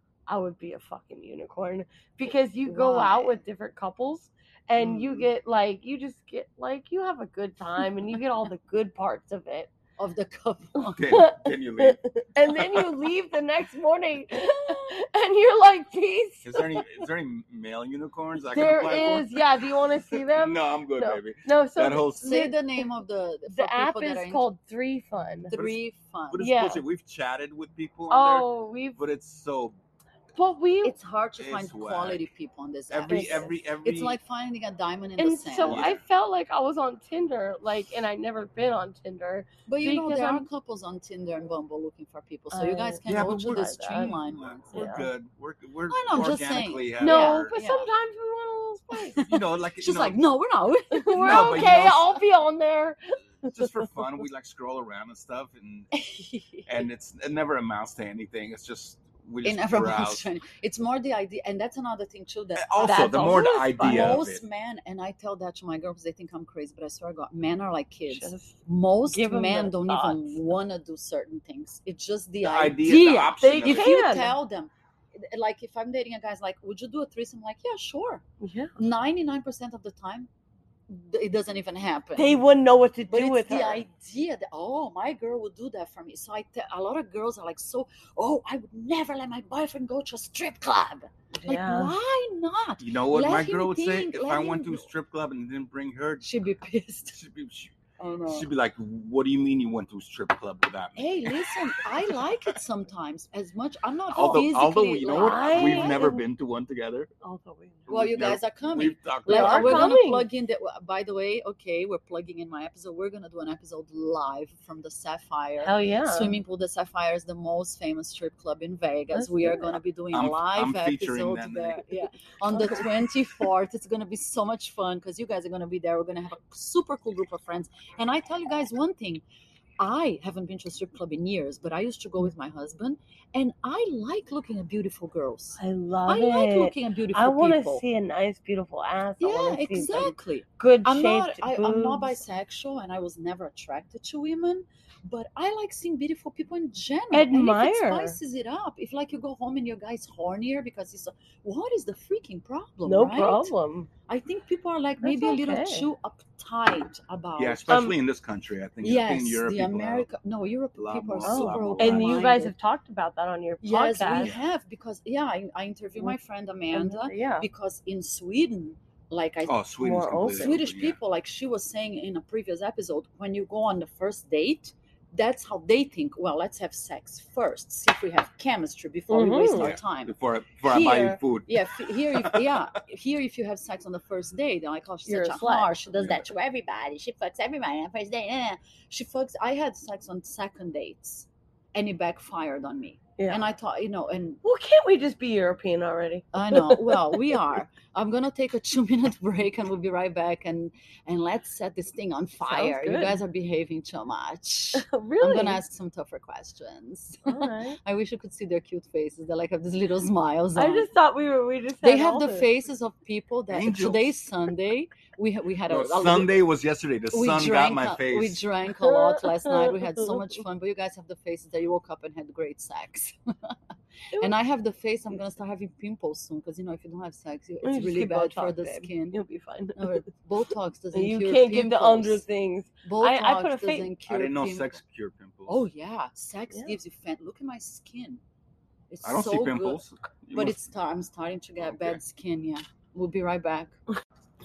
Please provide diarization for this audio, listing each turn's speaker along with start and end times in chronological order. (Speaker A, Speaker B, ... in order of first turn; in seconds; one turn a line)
Speaker A: 0.3-9.7
Speaker B: 2.6-3.4
Speaker B: 4.8-5.3
Speaker B: 10.0-11.0
Speaker C: 10.9-12.9
Speaker A: 11.1-16.6
Speaker C: 16.4-22.4
Speaker A: 18.5-22.9
Speaker B: 22.2-24.4
Speaker A: 23.5-25.5
Speaker B: 25.5-26.5
Speaker C: 25.5-25.8
Speaker C: 26.3-29.8
Speaker A: 26.4-26.8
Speaker A: 28.1-29.0
Speaker A: 30.3-30.9
Speaker B: 30.8-35.9
Speaker C: 31.4-32.3
Speaker C: 32.9-34.2
Speaker A: 33.1-33.5
Speaker A: 35.2-40.5
Speaker C: 35.6-36.0
Speaker B: 39.7-44.8
Speaker A: 42.5-44.1
Speaker C: 43.1-47.6
Speaker A: 44.7-45.1
Speaker B: 45.9-47.9
Speaker A: 47.0-49.2
Speaker B: 49.1-52.1
Speaker C: 49.2-50.2
Speaker A: 50.9-53.9
Speaker C: 51.1-52.1
Speaker C: 53.4-55.9
Speaker B: 55.9-56.8
Speaker C: 56.6-60.2
Speaker B: 59.4-78.2
Speaker C: 62.6-64.4
Speaker A: 62.8-64.2
Speaker A: 68.1-68.6
Speaker A: 69.1-70.4
Speaker C: 72.4-73.9
Speaker A: 73.4-74.3
Speaker A: 78.4-78.7
Speaker B: 78.8-80.3
Speaker B: 80.9-82.4
Speaker A: 82.2-83.8
Speaker B: 83.1-94.9
Speaker A: 91.4-91.9
Speaker C: 92.8-96.3
Speaker B: 96.2-97.2
Speaker C: 97.1-97.7
Speaker B: 98.0-98.5
Speaker C: 98.3-102.5
Speaker B: 101.0-106.1
Speaker C: 104.1-107.1
Speaker A: 105.1-106.2
Speaker A: 107.2-108.0
Speaker C: 107.9-110.0
Speaker B: 107.9-129.2
Speaker A: 109.3-110.3
Speaker A: 115.6-116.4
Speaker A: 119.1-119.8
Speaker C: 120.1-121.8
Speaker A: 122.5-123.0
Speaker B: 129.8-137.8
Speaker A: 135.6-142.2
Speaker B: 139.2-153.5
Speaker A: 147.1-148.2
Speaker A: 152.8-153.9
Speaker B: 154.1-157.8
Speaker A: 155.0-155.9
Speaker C: 157.4-160.1
Speaker A: 157.7-157.9
Speaker B: 158.8-162.5
Speaker C: 160.8-162.3
Speaker A: 161.2-164.3
Speaker B: 163.6-169.6
Speaker C: 164.2-164.4
Speaker A: 166.7-167.4
Speaker C: 169.4-171.0
Speaker A: 169.8-170.5
Speaker B: 170.3-194.4
Speaker A: 179.1-179.7
Speaker C: 179.6-182.6
Speaker A: 185.1-185.7
Speaker C: 185.9-186.3
Speaker A: 193.2-193.4
Speaker A: 194.4-197.4
Speaker B: 196.3-210.9
Speaker A: 202.4-203.2
Speaker A: 204.8-205.6
Speaker A: 207.2-207.8
Speaker A: 210.6-212.5
Speaker B: 211.8-216.4
Speaker C: 213.5-214.2
Speaker C: 215.7-218.4
Speaker B: 217.1-223.5
Speaker A: 218.8-220.3
Speaker B: 224.2-229.2
Speaker A: 227.6-230.0
Speaker B: 229.8-232.2
Speaker A: 230.9-233.9
Speaker B: 232.8-234.8
Speaker C: 234.1-235.7
Speaker B: 235.5-238.2
Speaker B: 238.9-243.8
Speaker C: 239.0-240.6
Speaker C: 241.7-242.0